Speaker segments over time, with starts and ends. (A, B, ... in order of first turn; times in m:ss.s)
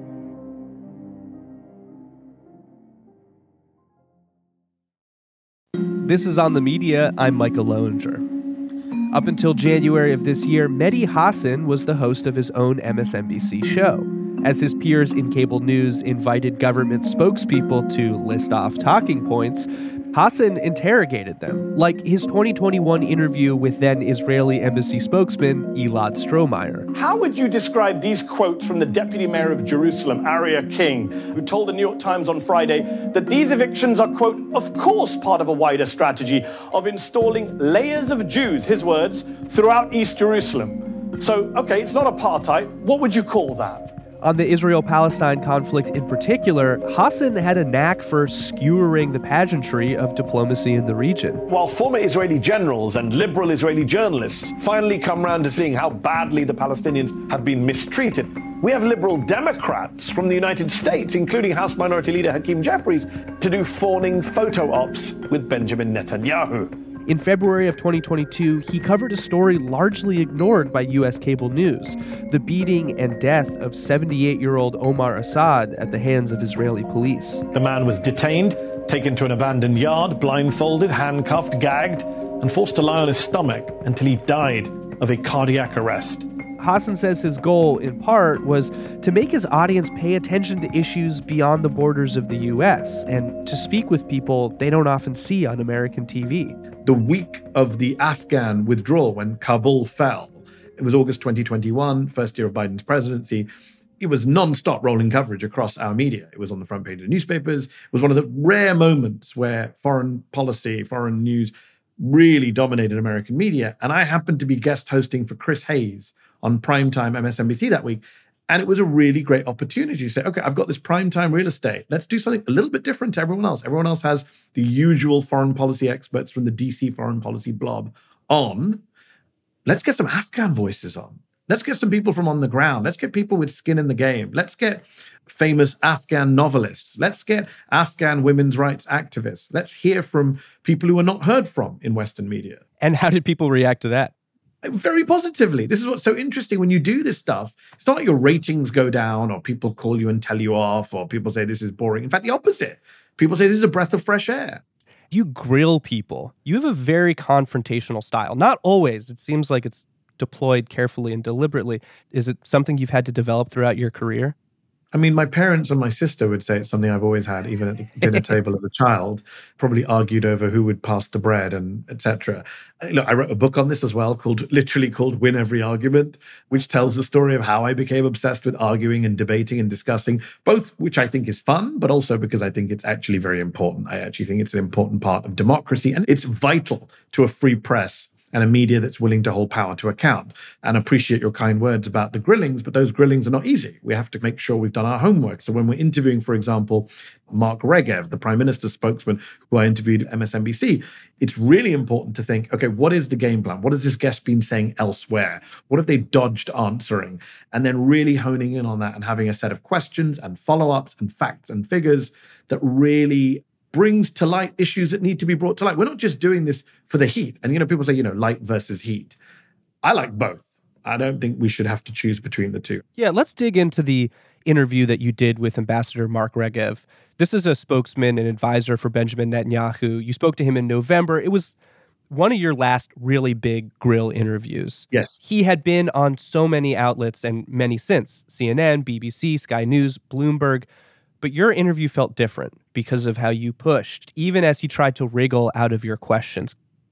0:06.0-0:08.2 A
0:09.1-0:26.9 A
0:26.9-0:43.9 B
0:44.2-0:51.4 A
0:51.5-1:06.7 B
1:07.1-1:17.4 A
1:17.6-1:26.2 B
1:26.6-1:36.6 A
1:36.8-1:43.5 C
1:44.0-2:08.8 C
2:09.6-2:22.6 C
2:22.8-2:24.1 A
2:24.6-2:34.6 C
2:35.1-2:44.3 A
2:44.9-3:39.2 C
2:48.0-2:48.4 A
3:39.8-3:42.8 C
3:43.0-3:51.5 A
3:52.1-4:00.7 A
4:01.2-4:06.6 A